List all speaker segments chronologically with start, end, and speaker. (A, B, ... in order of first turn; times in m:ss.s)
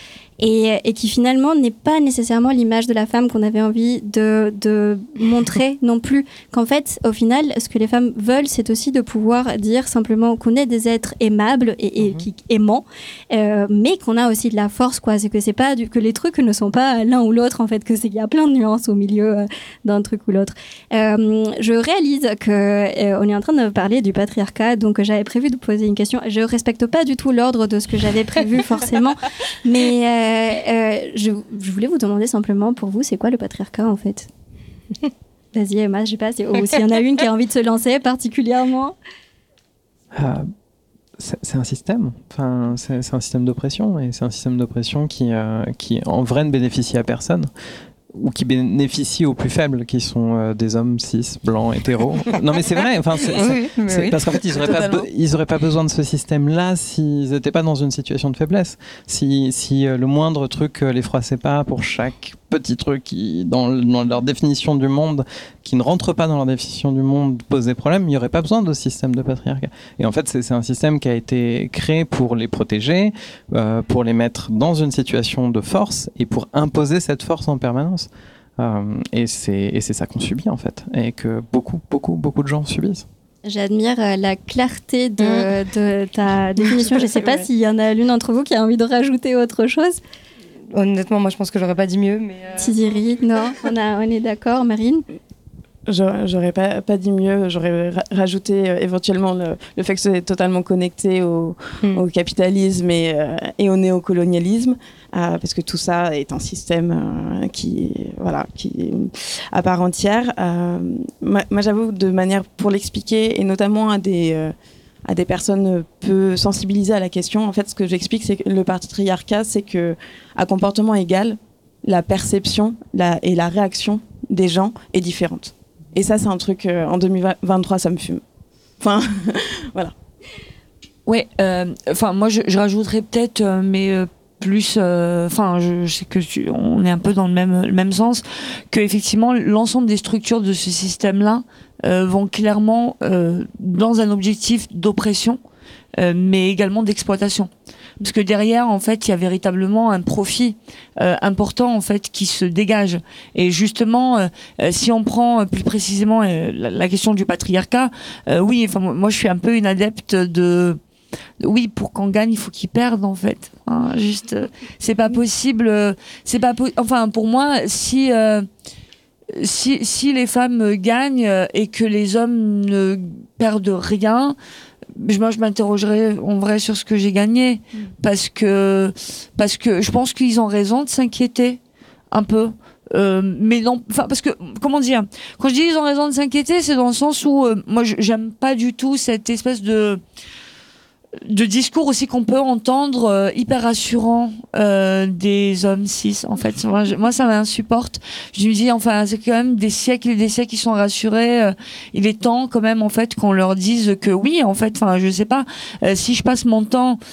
0:00.4-0:34.3 A
0:35.5-0:39.0 A
0:40.1-0:40.5 B
0:41.2-0:47.5 B
0:48.1-1:23.1 B
0:53.3-0:55.0 C
1:23.4-1:30.0 A
1:25.2-1:25.5 C
1:26.9-1:27.5 C
1:30.7-1:32.8 C
1:32.6-1:35.0 A
1:35.9-1:54.5 D
1:55.0-2:08.2 D
2:08.8-2:09.9 D
2:11.1-2:25.4 E
2:26.0-2:40.8 E
2:41.4-2:48.5 E
2:49.3-2:54.4 E
2:55.0-3:01.6 E
3:02.1-3:10.0 E
3:11.2-3:27.0 E